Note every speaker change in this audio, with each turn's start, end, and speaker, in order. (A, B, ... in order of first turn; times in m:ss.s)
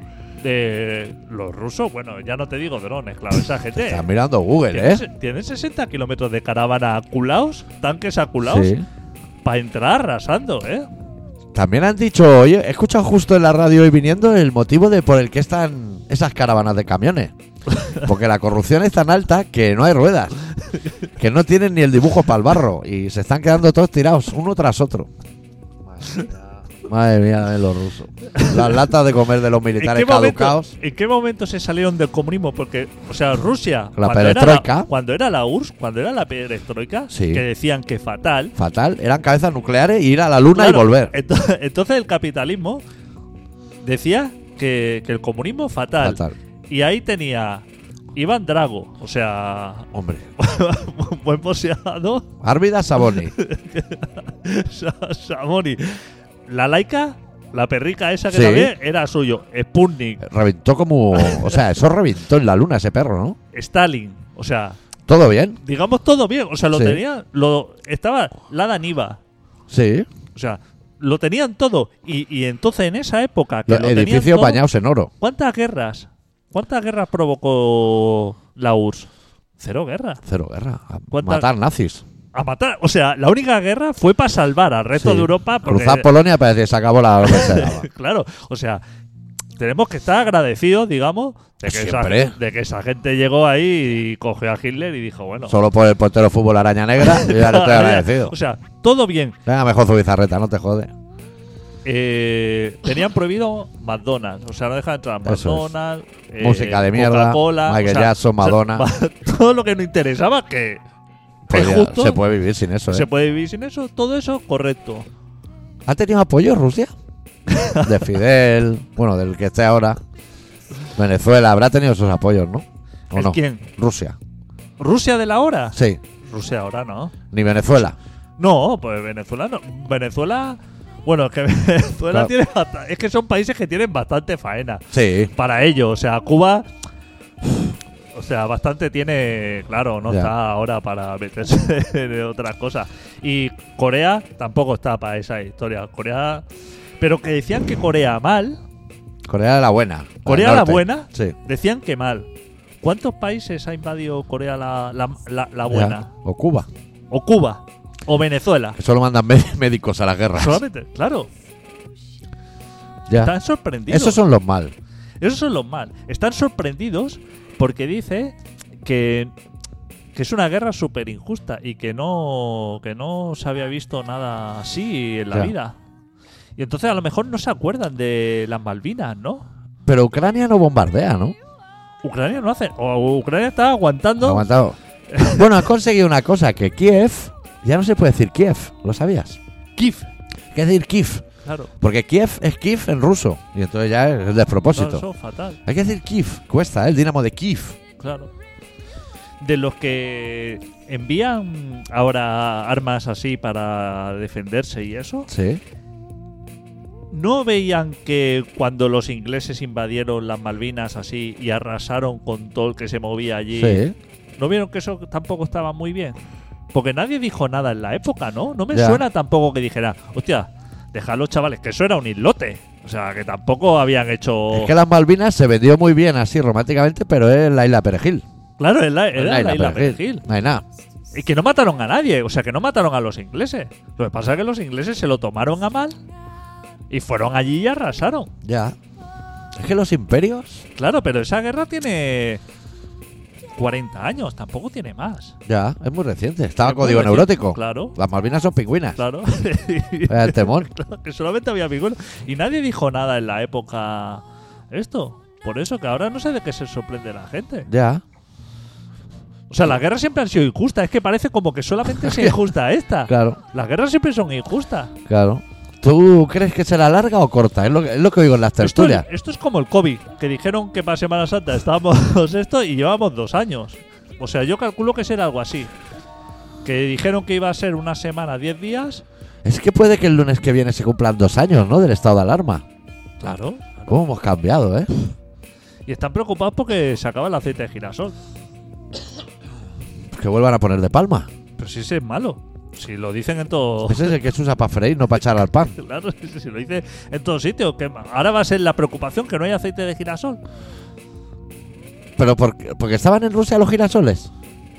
0:00.4-0:04.0 A
0:03.8-0:05.0 B
0:04.7-0:08.7 A
0:08.4-0:08.8 B
0:09.4-0:10.9 A
0:11.5-0:17.3 B
0:18.0-0:20.3 B
0:21.2-0:25.1 B
0:25.9-0:30.7 B
0:28.3-0:28.7 A
0:29.8-0:38.5 A
0:34.0-0:34.9 B
0:37.1-0:37.4 B
0:38.6-0:41.1 B
0:40.5-0:42.8 A
0:43.8-0:52.3 A
0:46.0-0:46.3 B
0:49.9-0:50.2 B
0:52.4-0:53.3 B
0:53.1-1:00.2 A
0:58.3-0:58.7 B
1:00.2-1:03.4 B
1:01.2-1:01.5 A
1:03.5-1:04.8 A
1:05.1-1:05.6 B
1:05.6-1:09.2 A
1:06.7-1:07.0 B
1:09.7-1:10.1 B
1:10.3-1:14.6 A
1:13.7-1:15.1 B
1:15.2-1:19.1 A
1:19.6-1:20.2 A
1:20.2-1:22.0 B
1:21.1-1:21.5 A
1:22.3-1:26.1 A
1:25.0-1:27.9 B
1:27.2-1:28.8 A
1:29.6-1:35.6 A
1:31.6-1:32.4 B
1:35.5-1:38.3 B
1:37.0-1:39.4 A
1:39.4-1:40.9 B
1:41.8-1:50.8 A
1:45.2-1:45.7 B
1:46.4-1:48.9 B
1:51.5-1:53.1 B
1:51.5-1:52.2 A
1:52.9-1:55.1 A
1:55.8-1:56.9 B
1:57.5-1:58.0 A
1:57.8-2:00.0 B
2:00.9-2:04.2 B
2:03.1-2:03.7 A
2:04.8-2:07.1 A
2:05.7-2:06.0 B
2:07.3-2:08.0 B
2:08.4-2:16.7 A
2:14.9-2:15.3 B
2:18.1-2:26.4 A
2:20.0-2:20.3 B
2:27.0-2:28.6 A
2:29.2-2:31.4 B
2:30.2-2:32.3 A
2:32.8-2:36.1 A
2:35.7-2:36.7 B
2:37.1-2:38.8 A
2:38.8-2:40.6 B
2:40.3-2:41.3 A
2:43.1-2:43.3 B
2:43.1-2:44.2 A
2:43.9-2:44.7 B
2:45.2-2:49.3 A
2:50.1-2:55.7 A
2:56.6-2:59.5 A
2:59.8-3:01.4 B
3:02.0-3:04.5 A
3:04.2-3:09.4 B
3:05.1-3:05.4 A
3:09.8-3:10.1 A
3:10.5-3:11.2 B
3:11.4-3:11.7 A
3:11.8-3:15.0 B
3:14.7-3:15.6 A
3:15.6-3:17.8 B
3:18.0-3:18.3 A
3:19.4-3:25.3 A
3:25.3-3:25.6 B
3:27.1-3:33.8 A
3:33.5-3:33.9 B
3:34.4-3:36.2 A
3:36.7-3:44.7 A
3:38.7-3:39.0 B
3:44.5-3:48.2 B
3:48.6-3:50.2 A
3:49.1-3:50.6 B
3:51.1-3:56.0 A
3:56.9-3:58.3 A
3:58.4-3:58.8 B
3:59.5-4:00.6 B
4:00.8-4:02.4 A
4:03.6-4:05.4 A
4:05.5-4:09.0 B
4:06.6-4:08.0 A
4:09.0-4:17.7 A
4:10.1-4:10.7 B
4:17.7-4:18.0 B
4:19.5-4:24.9 A
4:22.0-4:22.4 B
4:23.1-4:23.4 B
4:25.1-4:29.1 B
4:28.6-4:35.7 A
4:36.6-4:39.0 A
4:39.4-4:42.6 B
4:43.2-4:43.9 A
4:43.9-4:45.1 B
4:45.9-4:48.1 A
4:50.1-4:51.3 B
4:51.6-4:54.1 A
4:53.9-4:55.7 B
4:55.3-5:00.4 A
5:02.2-5:04.3 B